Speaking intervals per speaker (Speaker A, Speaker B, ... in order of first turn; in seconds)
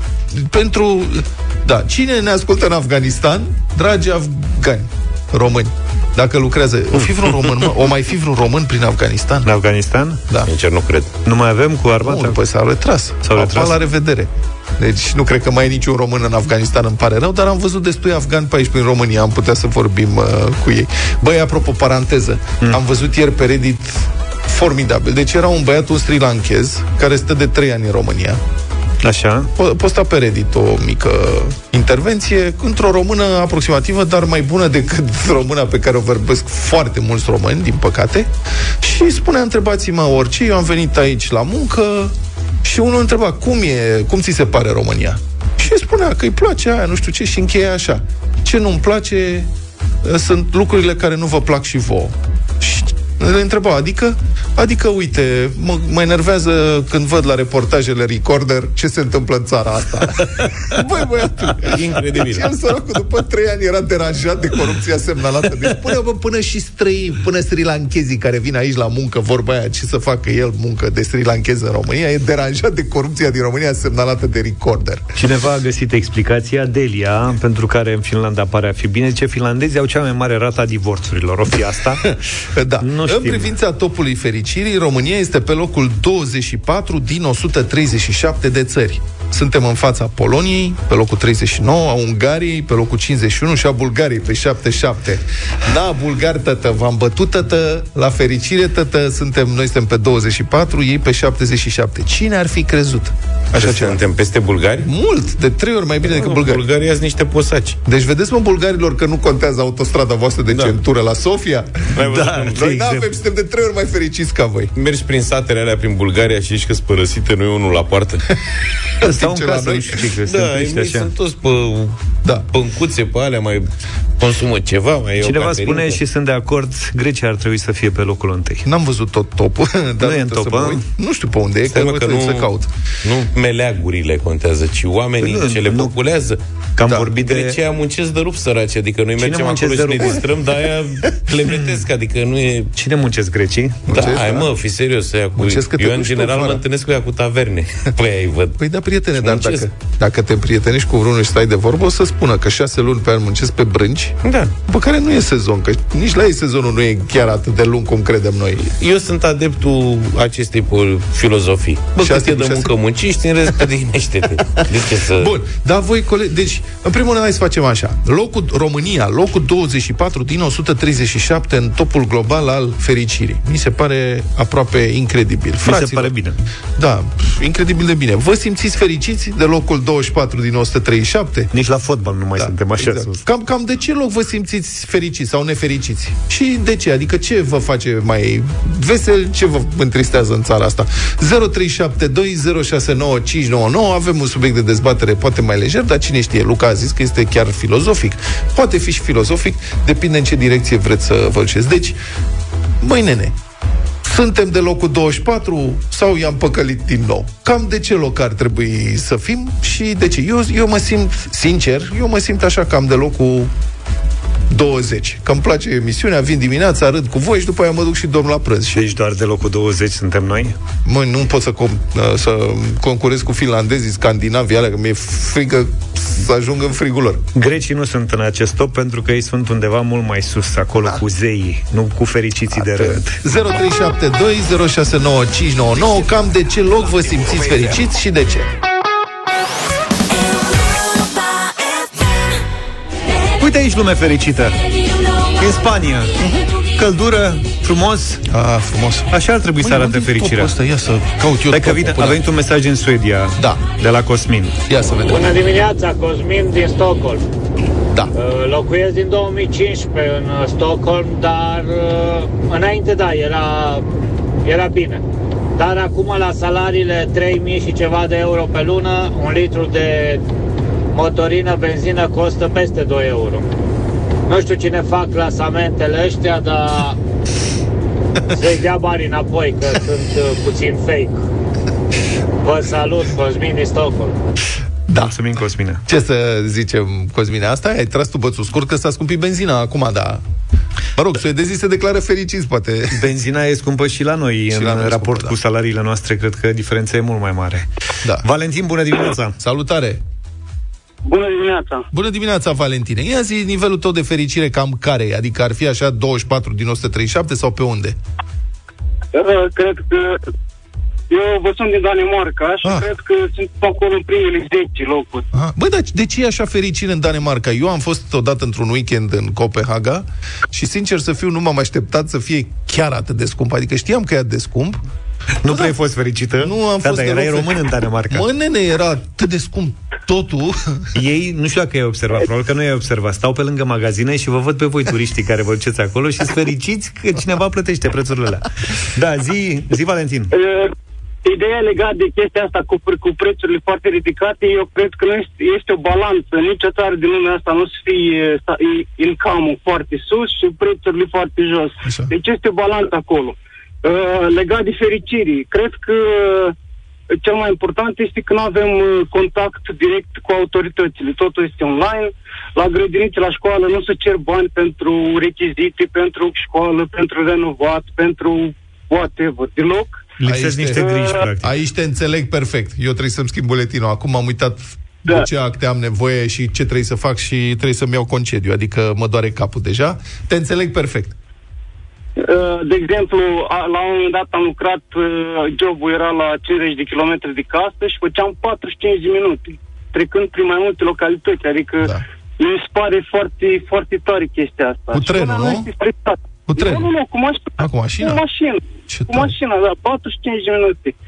Speaker A: 0.3-9.5, 12.0-28.4, 29.6-49.5, 50.0-75.2, 82.5-104.0, 104.8-106.7, 107.8-111.7, 112.5-114.7, 119.0-120.0, 128.6-132.7, 136.9-137.1, 143.9-144.5, 145.4-146.6, 148.6-154.2, 154.7-158.7, 162.0-162.7, 165.1-176.1, 176.8-181.5, 182.4-202.0, 202.8-203.4, 204.0-213.5, 214.5-218.8, 220.8-227.2, 232.5-238.5, 246.2-246.5, 248.3-252.2, 253.4-253.6, 254.7-255.4, 284.9-285.2, 285.9-290.2, 291.0-293.1, 294.5-295.3, 299.4-300.0, 301.9-308.0, 312.6-312.9, 315.3-324.8, 325.5-325.7, 326.4-330.9, 351.9-352.1, 370.2-381.2, 394.9-395.7, 396.5-396.9, 397.6-398.2, 398.9-399.4
Speaker B: 9.5-10.2, 11.2-12.4, 13.2-13.8, 29.0-29.5, 75.2-82.0, 82.8-83.5, 112.0-113.1, 119.0-121.1, 125.2-128.7, 130.0-130.8, 135.2-135.9, 136.8-137.6, 139.2-140.2, 142.8-143.9, 175.6-176.4, 181.5-183.2, 218.7-220.6, 227.3-233.2, 243.4-244.6, 245.4-246.1, 246.8-248.2, 249.1-250.5, 251.5-254.6, 285.0-285.9, 292.9-297.7, 298.2-299.4, 325.4-328.3, 330.9-340.3, 370.2-371.5
Speaker C: 10.5-11.1, 61.5-62.5, 103.6-104.9, 106.1-107.8, 110.5-110.8, 112.0-112.7, 114.8-118.2, 120.3-123.7, 124.2-126.0, 131.7-132.5, 133.0-136.4, 137.2-142.7, 143.9-148.6, 149.2-149.7, 154.2-154.5, 158.7-165.3
Speaker D: 255.1-257.2, 258.1-263.9, 264.4-265.0, 265.6-270.2, 270.9-273.4, 274.3-277.0, 278.3-281.2, 282.4-284.2
Speaker E: 301.1-301.9, 309.1-310.2, 311.1-315.3, 340.3-340.7, 341.3-356.5, 357.2-370.1, 370.8-371.1, 382.2-400.9